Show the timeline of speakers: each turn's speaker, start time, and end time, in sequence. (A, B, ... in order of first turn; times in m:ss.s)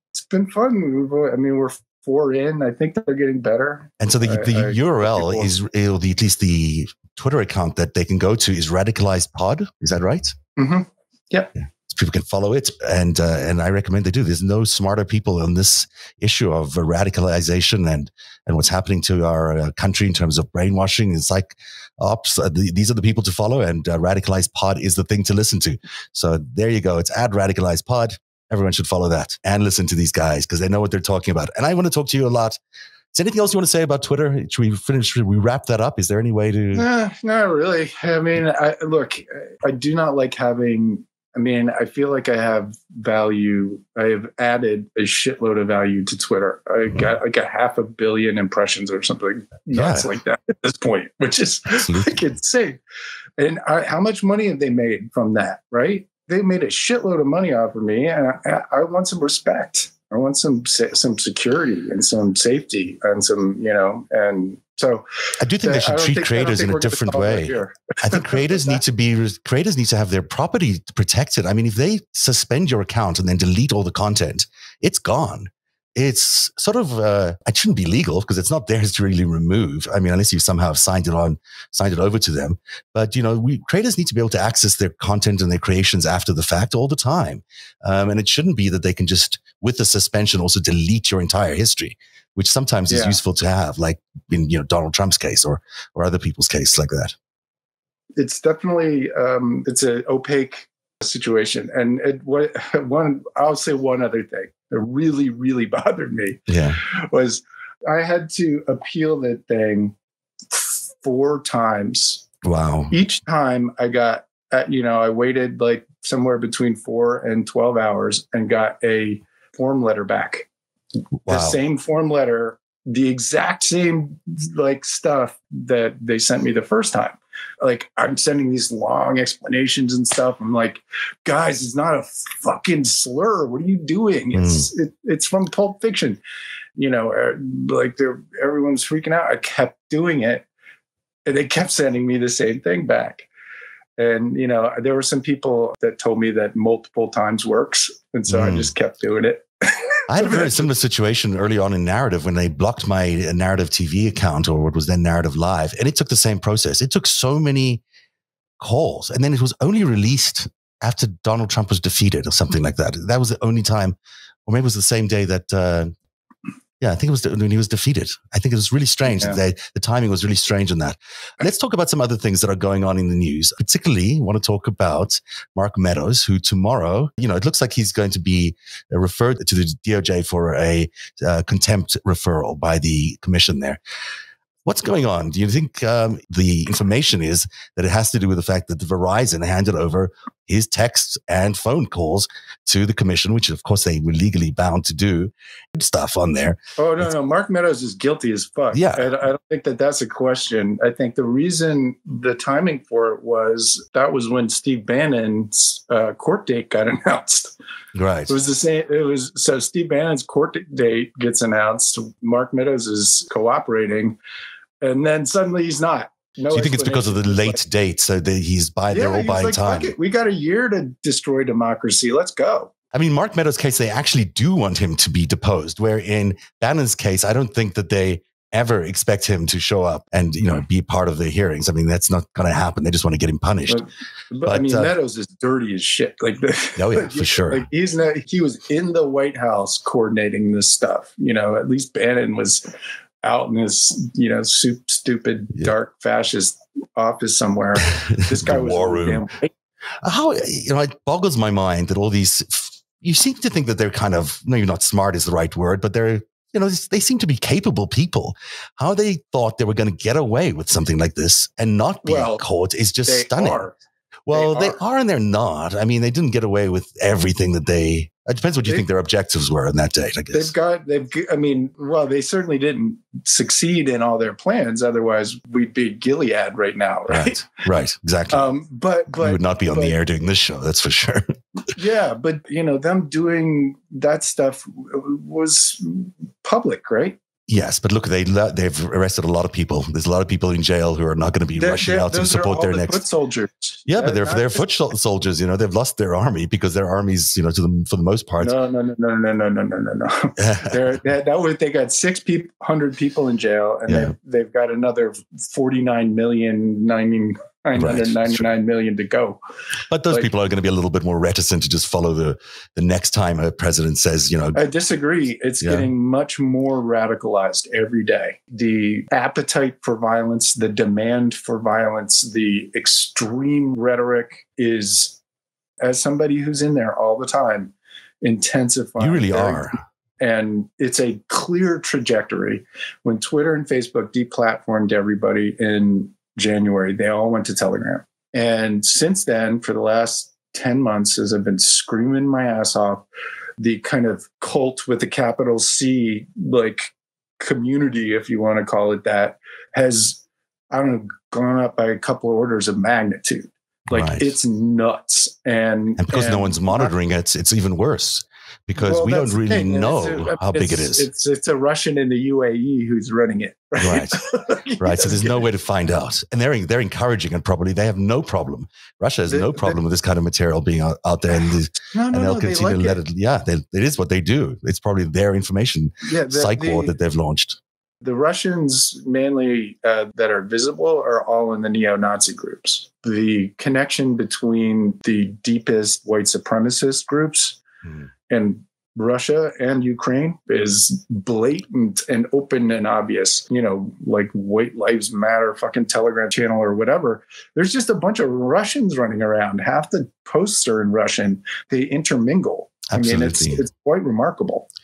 0:00.2-0:05.5 A
0:04.0-0:10.3 B
0:10.6-0:11.5 A
0:11.8-0:32.6 B
0:33.1-0:36.9 B
0:36.7-0:52.8 A
0:49.7-0:50.1 B
0:51.8-0:52.2 B
0:53.4-1:05.1 A
1:05.4-1:37.2 B
1:05.6-1:08.8 A
1:32.9-1:33.2 A
1:38.2-1:50.0 A
1:46.5-1:46.8 B
1:50.5-1:52.3 A
1:52.4-1:53.0 B
1:52.9-2:00.5 A
2:01.3-2:01.6 B
2:01.3-2:16.2 A
2:14.3-2:14.7 B
2:16.8-2:20.5 A
2:21.3-2:23.3 A
2:24.0-2:30.7 A
2:28.3-2:28.7 B
2:30.1-2:37.8 B
2:38.6-2:44.0 B
2:44.5-2:45.9 B
2:46.8-3:03.8 B
2:49.1-2:49.4 A
3:04.7-3:17.1 B
3:16.8-3:27.5 A
3:18.7-3:19.1 B
3:28.0-3:28.4 B
3:28.3-3:34.2 A
3:34.8-3:37.6 A
3:36.5-3:39.9 B
3:38.9-3:42.7 A
3:42.9-3:53.8 B
3:53.7-4:02.7 A
3:54.5-3:54.9 B
3:56.8-3:57.6 B
4:03.2-4:09.5 A
4:08.1-4:09.2 B
4:10.0-4:23.6 B
4:22.0-4:22.4 A
4:23.0-4:23.8 A
4:24.3-4:30.5 B
4:24.3-4:24.8 A
4:30.3-4:37.4 A
4:37.1-4:38.5 B
4:38.3-4:40.0 A
4:39.2-4:41.4 B
4:41.7-4:47.2 A
4:47.5-4:53.0 B
4:51.6-4:54.6 A
4:53.9-4:58.5 B
4:58.4-5:09.4 A
5:00.4-5:00.8 B
5:03.9-5:04.1 B
5:07.8-5:08.4 B
5:09.9-5:14.6 B
5:14.6-5:25.2 A
5:15.6-5:15.9 B
5:25.8-5:43.0 A
5:29.0-5:29.8 B
5:43.6-5:56.9 A
5:53.9-5:54.3 B
5:56.0-6:01.1 B
5:58.8-6:05.5 A
6:03.8-6:04.2 B
6:04.8-6:17.6 B
6:09.3-6:09.8 A
6:11.9-6:13.0 A
6:16.0-6:16.9 A
6:18.0-6:27.6 A
6:28.3-6:44.7 A
6:42.9-6:43.6 B